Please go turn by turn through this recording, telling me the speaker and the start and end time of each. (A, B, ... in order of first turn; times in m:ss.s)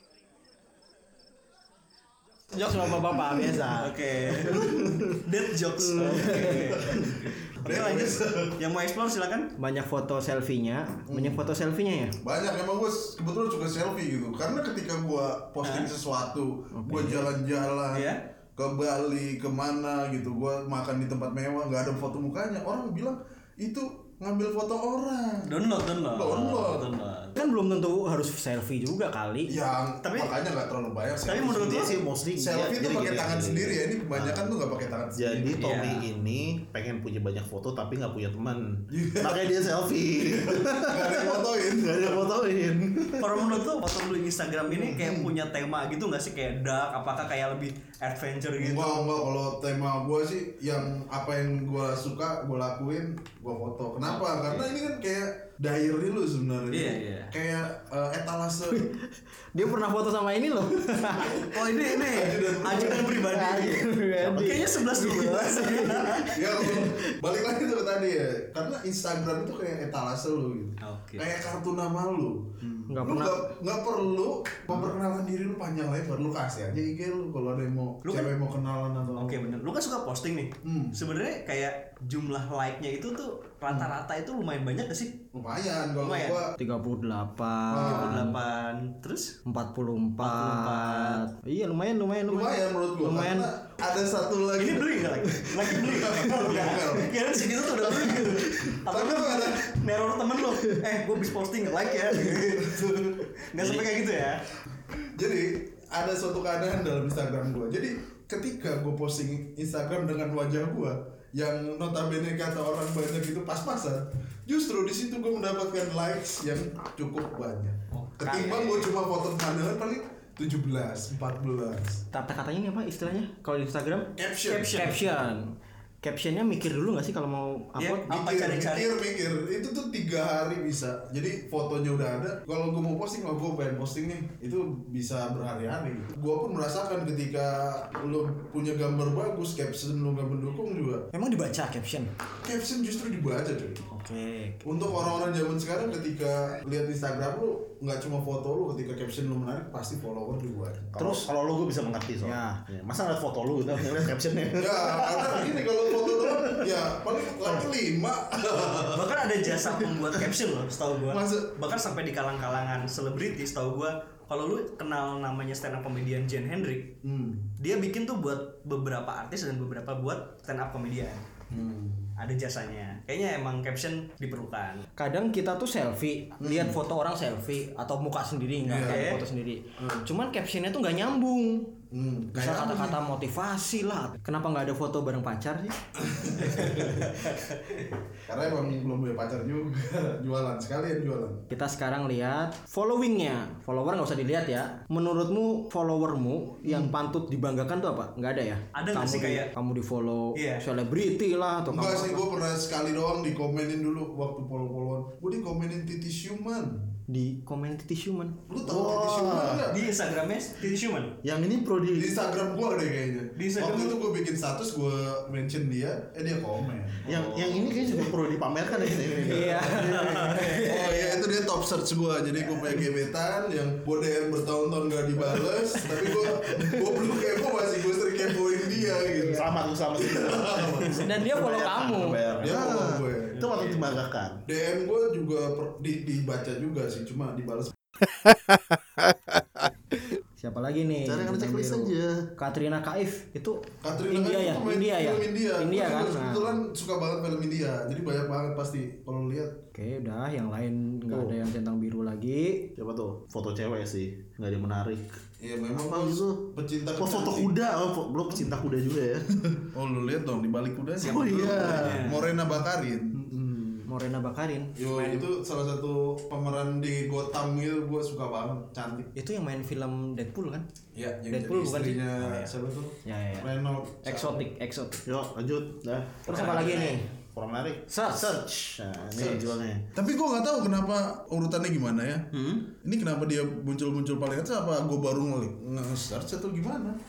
0:02.5-0:03.8 A
0:03.3-0:04.6 B
0:03.7-0:09.5 C
0:04.4-0:05.1 D
0:04.4-0:05.1 A
0:06.0-0:07.1 A
0:06.0-0:08.5 D
0:06.2-0:06.5 B
0:09.6-0:12.2 A
0:11.1-0:11.4 D
0:12.2-0:27.0 D
0:15.6-0:15.9 C
0:16.7-0:17.3 A
0:17.9-0:18.2 C
0:25.4-0:27.4 C
0:27.3-0:29.6 A
0:29.5-0:35.6 D
0:30.0-0:30.3 C
0:31.2-0:31.9 C
0:31.5-0:34.5 B
0:35.2-0:43.5 B
0:35.6-0:36.0 C
0:38.9-0:42.3 D
0:43.2-0:49.1 C
0:44.7-0:45.3 D
0:48.6-0:58.8 D
0:54.0-0:54.6 C
0:56.7-0:57.3 C
0:58.7-1:01.6 A
1:01.2-1:03.3 D
1:01.3-1:06.4 C
1:02.6-1:07.1 A
1:06.1-1:19.4 D
1:10.8-1:11.3 C
1:12.9-1:13.4 A
1:18.0-1:18.3 C
1:19.1-1:25.2 C
1:20.6-1:20.9 D
1:25.3-1:26.5 D
1:26.0-1:26.4 C
1:26.6-1:28.4 A
1:27.7-1:28.3 D
1:27.7-1:29.4 C
1:29.4-1:33.5 A
1:30.2-1:31.2 C
1:32.2-1:39.7 D
1:34.6-1:42.9 C
1:38.5-1:38.8 A
1:42.2-1:43.2 D
1:43.4-1:44.4 C
1:45.1-2:02.0 D
1:57.9-1:58.9 C
2:02.1-2:08.0 A
2:04.2-2:05.1 D
2:04.6-2:04.9 C
2:07.8-2:09.0 C
2:08.1-2:21.1 D
2:21.1-2:22.1 A
2:22.4-2:23.8 D
2:23.9-2:24.7 A
2:24.6-2:31.2 D
2:30.9-2:36.8 B
2:32.2-2:32.6 A
2:34.6-2:40.1 D
2:38.9-2:46.9 C
2:41.1-2:41.7 D
2:47.0-2:47.4 D
2:47.6-2:51.2 C
2:51.5-2:52.1 D
2:52.2-2:54.8 C
2:55.0-3:01.8 A
2:56.4-2:56.8 D
2:58.6-2:59.1 D
2:58.8-2:59.2 C
2:59.8-3:00.0 D
3:01.9-3:03.0 D
3:02.3-3:05.8 A
3:06.0-3:07.3 D
3:06.4-3:06.7 A
3:06.9-3:07.6 C
3:08.2-3:11.4 D
3:11.5-3:22.2 A
3:16.6-3:16.9 D
3:18.7-3:19.5 C
3:20.3-3:20.6 C
3:21.7-3:26.9 D
3:27.1-3:28.4 A
3:28.5-3:29.8 D
3:28.6-3:29.7 B
3:29.7-3:31.1 C
3:31.2-3:32.1 B
3:31.9-3:37.0 D
3:33.4-3:34.0 C
3:37.0-3:37.9 C
3:37.0-3:40.0 B
3:38.8-3:41.2 A
3:39.6-3:41.0 C
3:40.1-3:51.1 D
3:42.5-3:42.8 A
3:45.8-3:47.3 A
3:49.0-3:54.4 B
3:49.0-3:49.4 A
3:50.9-3:52.2 A
3:52.4-3:53.4 D
3:53.3-3:53.9 C
3:54.4-3:57.7 D
4:00.4-4:06.5 A
4:01.0-4:02.3 B
4:03.8-4:09.6 D
4:09.7-4:12.7 A
4:11.1-4:11.4 B
4:12.8-4:15.2 B
4:15.4-4:17.5 D
4:15.7-4:19.3 B
4:19.5-4:23.8 D
4:21.0-4:22.0 B
4:21.0-4:22.3 C
4:23.8-4:25.3 A
4:24.8-4:29.1 D
4:29.1-4:30.6 A
4:30.9-4:34.4 D
4:31.3-4:32.2 A
4:32.2-4:32.5 C
4:33.0-4:33.5 A
4:34.0-4:35.0 A
4:35.0-4:39.8 B
4:36.2-4:37.1 A
4:37.9-4:38.4 A
4:39.2-4:47.0 D
4:42.3-4:42.7 C